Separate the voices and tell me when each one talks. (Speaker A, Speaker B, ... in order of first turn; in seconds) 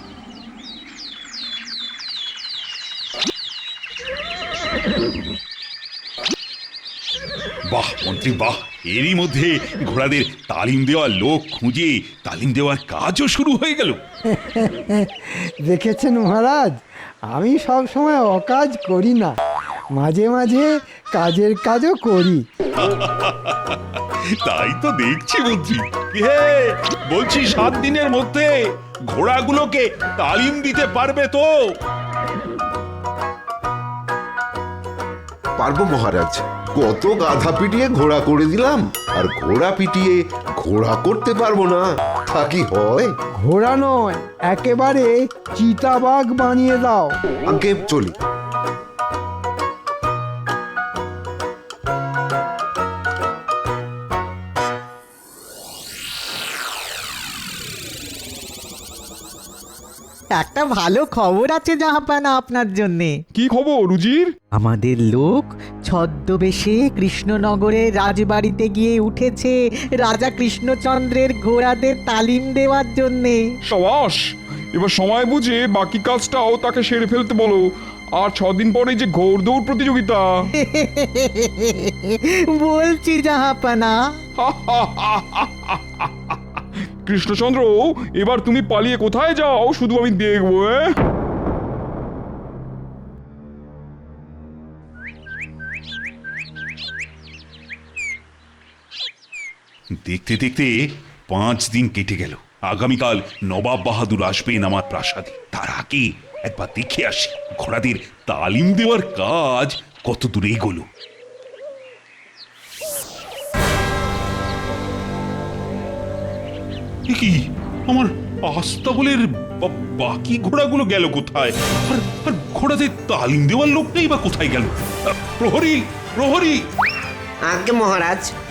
Speaker A: 7.7-14.0, 22.8-23.8, 24.4-28.5, 29.1-31.5, 100.0-100.7, 101.3-110.9, 117.1-126.6
Speaker B: 14.3-16.7, 17.3-19.4, 20.0-22.4, 43.4-47.1
Speaker C: 35.6-43.1, 47.5-48.1, 127.5-128.3
Speaker D: 60.4-63.2, 64.5-73.5, 80.6-84.0
Speaker E: 63.3-64.3, 73.7-80.3, 84.4-91.0